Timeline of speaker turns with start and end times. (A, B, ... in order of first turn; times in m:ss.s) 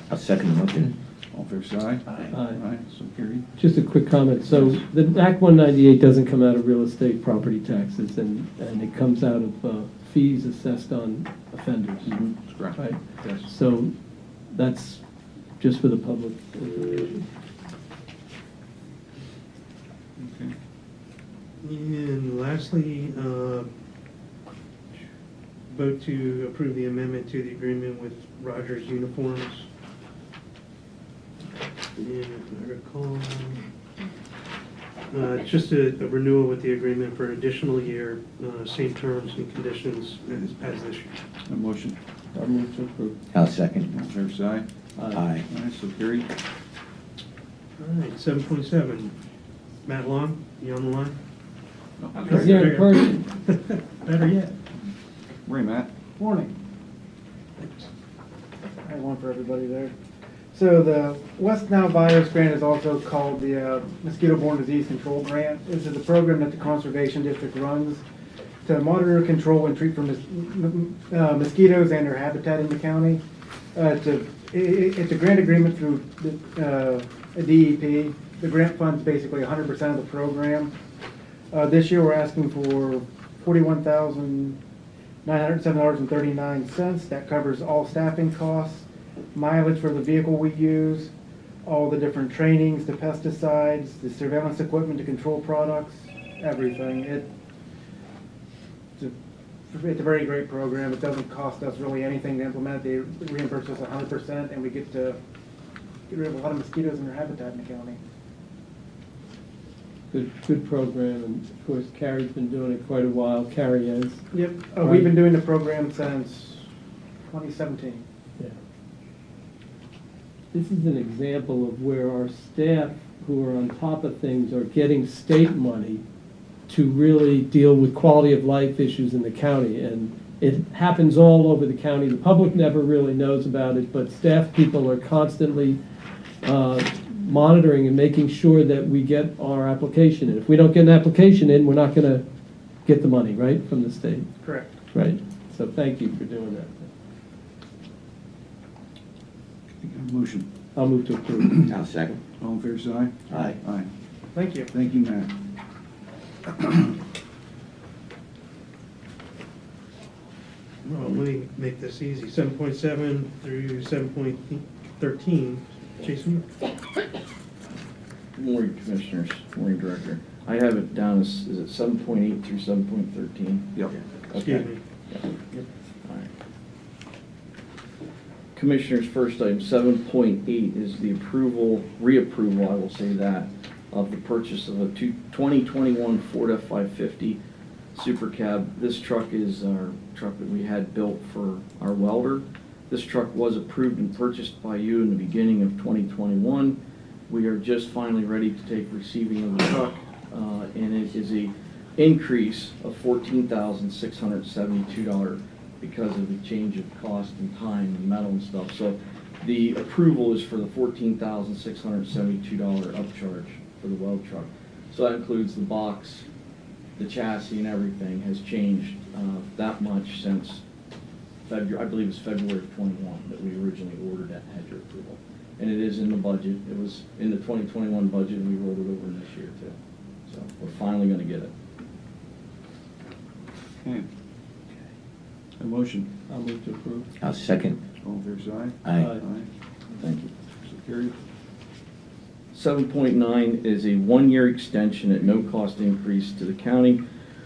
0:00.1-0:00.9 A
0:01.3-0:03.4 B
0:02.3-0:02.6 C
0:03.6-0:12.2 C
0:04.5-0:04.8 B
0:12.1-0:13.5 B
0:12.8-0:13.9 C
0:14.5-0:15.0 C
0:15.6-0:17.3 C
0:20.2-0:20.5 B
0:21.6-0:23.7 D
0:25.7-0:29.7 D
0:32.0-0:33.6 D
0:35.1-0:41.2 D
0:41.5-0:42.0 B
0:42.3-0:43.2 C
0:43.3-0:43.9 A
0:43.9-0:44.6 B
0:45.1-0:45.4 A
0:45.5-0:46.3 B
0:47.8-0:49.2 D
0:49.9-0:51.2 D
0:52.0-0:52.8 B
0:52.2-0:54.6 D
0:52.3-0:53.2 C
0:55.5-0:55.9 B
0:56.2-0:56.6 E
0:58.8-0:59.9 E
1:00.5-1:08.0 E
1:08.6-1:13.2 E
1:13.8-1:20.7 E
1:21.5-1:24.6 E
1:25.2-1:31.1 E
1:31.6-1:37.3 E
1:39.7-1:45.2 E
1:46.1-1:48.0 E
1:50.1-1:54.3 C
1:54.3-1:56.7 E
1:54.8-1:55.1 C
1:57.3-1:58.0 E
2:00.5-2:06.0 C
2:06.7-2:15.8 C
2:16.4-2:22.2 C
2:22.8-2:24.3 C
2:24.4-2:24.7 E
2:24.9-2:26.9 C
2:29.8-2:30.5 B
2:30.8-2:31.7 C
2:31.4-2:31.7 B
2:31.7-2:32.2 A
2:32.4-2:33.9 B
2:33.3-2:33.6 A
2:34.4-2:34.7 E
2:34.7-2:35.3 B
2:36.5-2:37.0 B
2:40.8-2:46.4 D
2:48.4-2:53.8 F
2:54.3-2:55.4 F
2:54.4-2:54.8 D
2:56.0-2:56.3 F
2:58.5-3:07.4 F
3:07.9-3:36.3 F
3:37.0-3:40.6 F
3:41.5-3:49.8 F
3:50.3-3:51.5 F
3:55.6-3:56.1 B
3:56.3-3:57.1 C
3:57.2-3:57.8 A
3:58.0-3:59.5 B
3:58.8-3:59.1 A
3:59.0-3:59.2 C
4:00.0-4:00.3 F
4:00.6-4:01.2 B
4:02.5-4:07.0 F